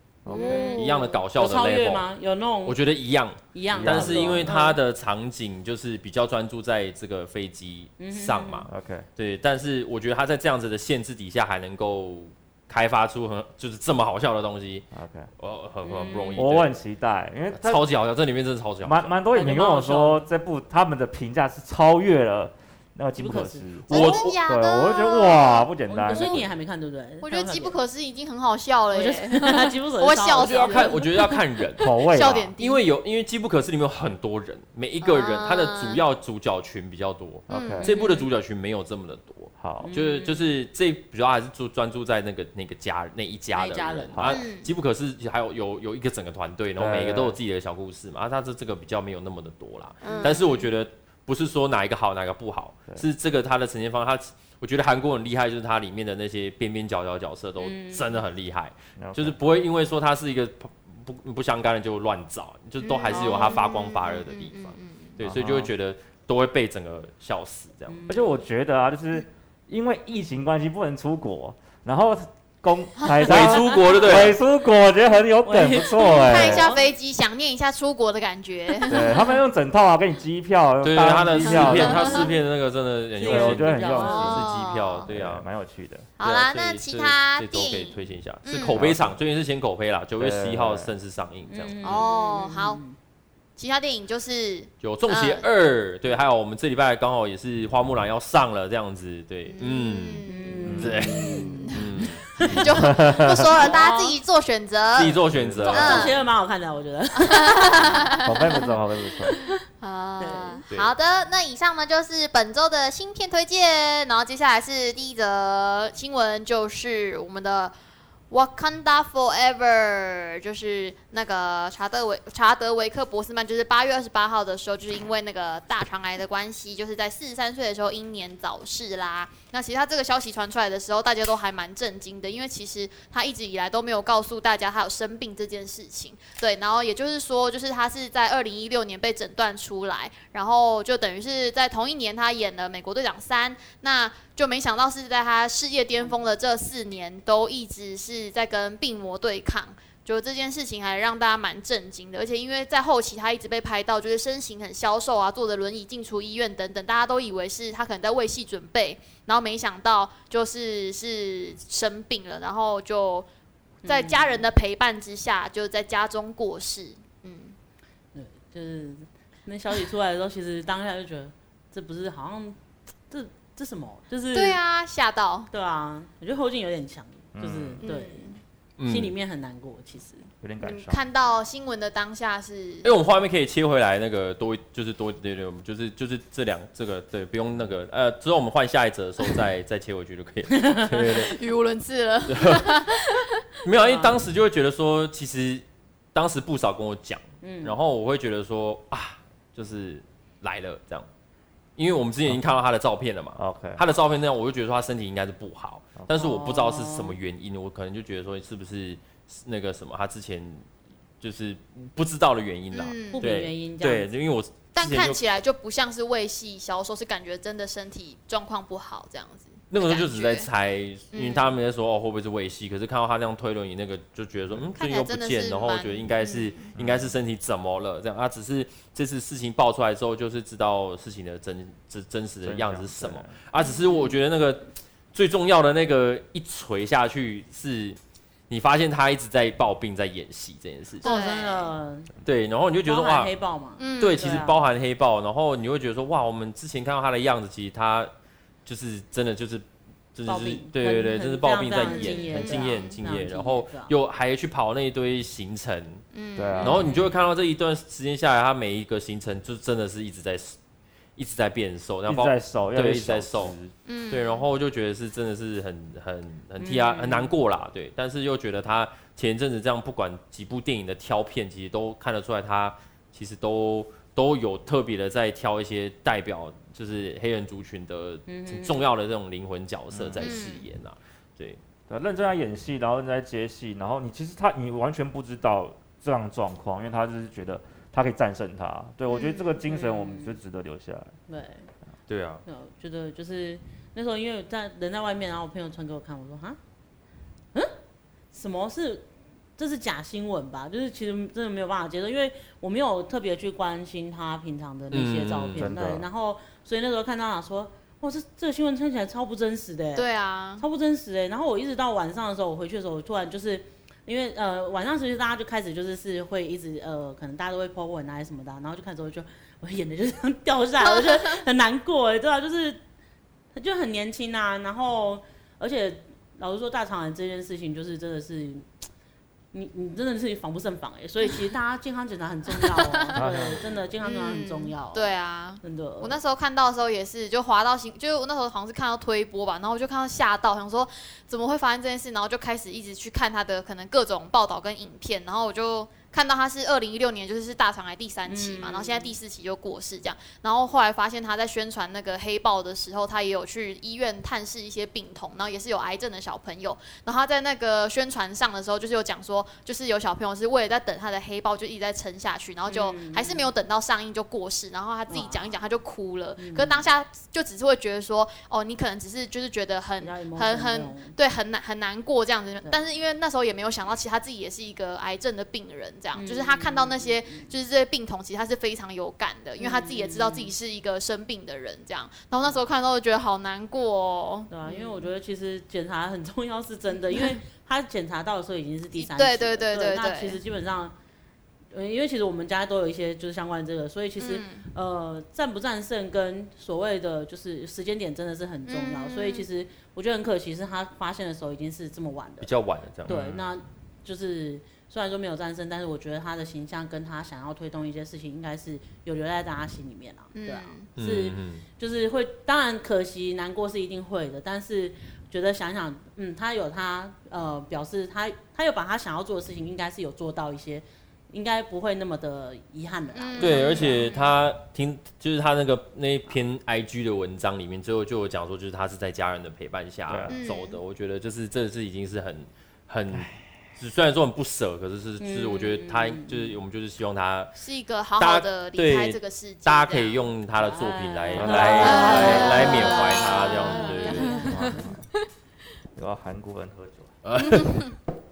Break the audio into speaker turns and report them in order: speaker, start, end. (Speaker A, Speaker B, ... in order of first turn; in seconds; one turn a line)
Speaker A: 0.2-0.8
Speaker B: 0.3-1.2
Speaker C: 0.4-2.0
Speaker D: 1.4-2.8
Speaker C: 2.6-14.9
Speaker D: 3.5-4.8
Speaker A: 3.7-4.5
Speaker D: 8.0-8.7
Speaker A: 8.7-9.1
Speaker A: 14.9-15.3
Speaker C: 15.4-16.8
Speaker D: 15.8-16.5
Speaker A: 16.4-17.8
Speaker C: 17.5-19.1
Speaker A: 18.8-26.5
Speaker D: 19.3-20.3
Speaker D: 23.2-24.1
Speaker C: 23.9-24.4
Speaker B: 23.9-25.7
Speaker D: 25.9-27.8
Speaker B: 27.2-31.1
Speaker D: 28.9-31.1
Speaker C: 30.4-68.0
Speaker B: 31.8-32.8
Speaker A: 31.8-32.5
Speaker B: 35.0-36.0
Speaker A: 37.5-37.9
Speaker B: 37.5-38.2
Speaker D: 37.8-38.2
Speaker A: 39.6-39.9
Speaker D: 39.8-40.5
Speaker D: 43.5-44.3
Speaker A: 44.1-44.4
Speaker B: 44.3-44.7
Speaker A: 46.8-47.4
Speaker B: 50.0-50.7
Speaker D: 50.0-50.4
Speaker D: 57.6-58.2
Speaker A: 59.0-59.4
Speaker B: 62.8-65.1
Speaker D: 63.1-63.7
Speaker A: 65.2-65.7
Speaker D: 67.9-68.4
Speaker A: 68.1-76.7
Speaker C: 73.2-74.4
Speaker D: 75.4-76.8
Speaker B: 76.2-79.4
Speaker D: 78.8-79.1
Speaker A: 78.9-82.2
Speaker C: 80.8-85.4
Speaker D: 81.4-82.4
Speaker B: 81.6-82.3
Speaker D: 83.2-84.4
Speaker A: 83.2-84.5
Speaker B: 84.0-85.1
Speaker A: 85.1-86.1
Speaker B: 86.2-88.8
Speaker C: 86.2-91.8
Speaker A: 88.6-89.2
Speaker A: 90.2-90.9
Speaker D: 91.5-93.0
Speaker B: 91.8-92.8
Speaker B: 93.6-95.4
Speaker C: 94.8-100.2
Speaker B: 99.5-101.8
Speaker D: 100.3-101.8
Speaker A: 100.7-101.1
Speaker C: 100.8-102.7
Speaker D: 102.4-102.7
Speaker B: 102.4-106.2
Speaker A: 102.6-103.5
Speaker D: 103.6-104.2
Speaker C: 105.0-106.2
Speaker A: 105.3-106.1
Speaker D: 105.6-108.6
Speaker B: 107.2-108.7
Speaker A: 108.2-109.3
Speaker D: 109.2-109.6
Speaker B: 109.8-117.8
Speaker D: 110.2-110.6
Speaker B: 118.3-163.3
Speaker D: 146.0-146.3
Speaker D: 163.8-164.4
Speaker B: 163.9-167.6
Speaker D: 168.1-172.6
Speaker D: 173.1-174.6
Speaker B: 174.3-175.5
Speaker D: 175.5-178.3
Speaker A: 177.3-177.8
Speaker C: 177.4-177.8
Speaker B: 177.8-178.4
Speaker C: 178.8-179.1
Speaker D: 178.8-180.3
Speaker A: 180.4-181.0
Speaker B: 180.6-182.9
Speaker C: 182.8-191.3
Speaker D: 190.6-191.2
Speaker B: 191.1-193.3
Speaker C: 192.3-192.7
Speaker C: 193.6-201.1
Speaker D: 193.8-194.2
Speaker D: 197.4-197.8
Speaker C: 201.8-210.7
Speaker A: 203.4-203.8
Speaker D: 206.1-207.2
Speaker C: 211.2-215.2
Speaker B: 212.7-213.3
Speaker D: 213.1-214.1
Speaker B: 214.8-220.5
Speaker C: 219.7-238.0
Speaker B: 221.1-221.6
Speaker B: 224.8-226.6
Speaker A: 226.8-227.2
Speaker A: 232.4-233.3
Speaker B: 233.6-234.1
Speaker C: 238.5-241.1
Speaker B: 241.0-241.7
Speaker D: 241.0-242.1
Speaker C: 242.2-243.3
Speaker D: 242.8-244.6
Speaker B: 243.8-244.2
Speaker C: 244.0-248.1
Speaker C: 248.7-256.0
Speaker D: 250.3-253.9
Speaker B: 251.8-253.0
Speaker B: 256.1-256.9
Speaker A: 256.4-256.9
Speaker C: 256.6-260.6
Speaker D: 256.6-257.1
Speaker C: 261.2-263.6
Speaker A: 262.1-263.7
Speaker B: 263.9-264.5
Speaker C: 264.1-281.6
Speaker D: 266.6-267.4
Speaker D: 278.3-278.9
Speaker A: 279.9-280.4
Speaker B: 280.2-280.6
Speaker A: 281.9-291.1
Speaker B: 289.1-289.4
Speaker D: 289.1-290.4
Speaker D: 291.3-291.7
Speaker C: 292.1-292.4
Speaker D: 292.5-296.6
Speaker D: 298.3-310.1
Speaker C: 304.9-305.7
Speaker A: 305.6-306.0
Speaker B: 309.9-310.6
Speaker D: 310.6-322.8
Speaker D: 323.5-328.7
Speaker D: 329.5-336.1
Speaker B: 332.6-333.3
Speaker A: 333.2-333.7
Speaker B: 334.0-385.1
Speaker D: 348.3-349.2
Speaker D: 362.7-363.5
Speaker D: 365.1-365.5
Speaker D: 366.4-366.9
Speaker D: 370.0-371.1
Speaker D: 376.1-377.5
Speaker D: 379.6-380.5
Speaker D: 384.5-390.9
Speaker B: 389.0-390.4
Speaker D: 391.7-402.5
Speaker B: 394.2-394.6
Speaker B: 398.7-399.5
Speaker C: 402.4-403.2
Speaker D: 403.1-424.0
Speaker A: 403.1-403.4
Speaker B: 410.3-410.9
Speaker C: 411.0-411.6
Speaker B: 423.1-424.3
Speaker C: 423.4-437.5
Speaker A: 430.1-430.4
Speaker B: 430.3-430.8
Speaker D: 435.2-436.6
Speaker B: 437.6-440.3
Speaker C: 438.2-444.6
Speaker D: 440.6-445.0
Speaker A: 441.4-442.0
Speaker B: 441.6-444.8
Speaker A: 444.5-445.0
Speaker A: 446.0-447.1
Speaker C: 447.2-447.9
Speaker B: 447.6-447.9